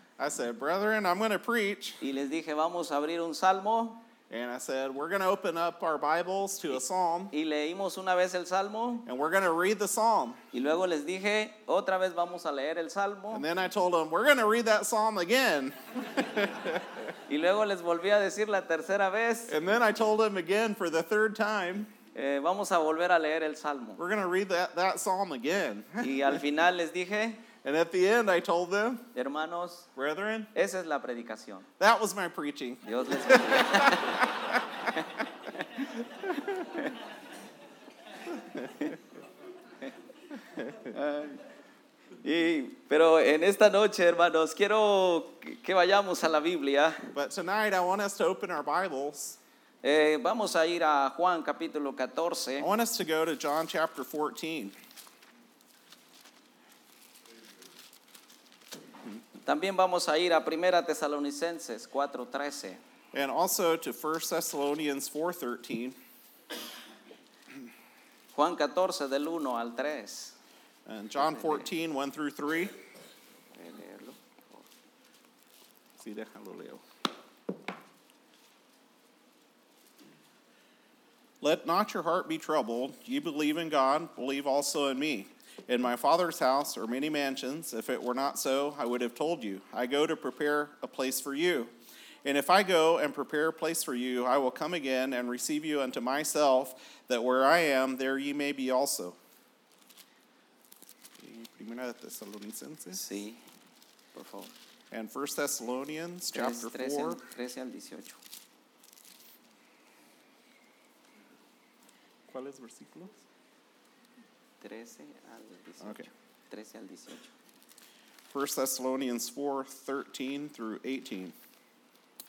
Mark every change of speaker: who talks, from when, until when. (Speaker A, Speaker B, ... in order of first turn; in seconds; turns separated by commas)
Speaker A: 0.2-2.0, Speaker B: 2.0-4.0, Speaker A: 4.3-7.3, Speaker B: 7.3-9.1, Speaker A: 9.1-10.4, Speaker B: 10.5-13.4, Speaker A: 13.3-17.0, Speaker B: 17.3-19.5, Speaker A: 19.5-21.9, Speaker B: 22.1-24.0, Speaker A: 24.0-26.4, Speaker B: 26.0-27.4, Speaker A: 27.6-29.0, Speaker B: 29.1-29.9, Speaker A: 29.9-30.5, Speaker B: 30.5-31.6, Speaker A: 31.8-34.6, Speaker B: 32.8-34.3, Speaker B: 34.9-35.9, Speaker B: 40.9-41.4, Speaker B: 42.2-47.1, Speaker A: 47.1-49.4, Speaker B: 49.8-52.7, Speaker A: 52.6-54.7, Speaker B: 59.4-62.8, Speaker A: 63.1-66.0, Speaker B: 68.3-70.3, Speaker A: 70.8-72.7, Speaker B: 71.2-71.7, Speaker B: 73.5-74.7, Speaker A: 76.0-76.8, Speaker A: 81.4-91.7, Speaker A: 92.2-99.2, Speaker A: 101.2-103.0, Speaker B: 102.9-103.4, Speaker B: 104.1-104.5, Speaker A: 104.9-107.2, Speaker B: 106.3-108.2, Speaker A: 112.3-113.2, Speaker B: 114.6-117.3, Speaker A: 115.8-116.1, Speaker A: 118.3-121.3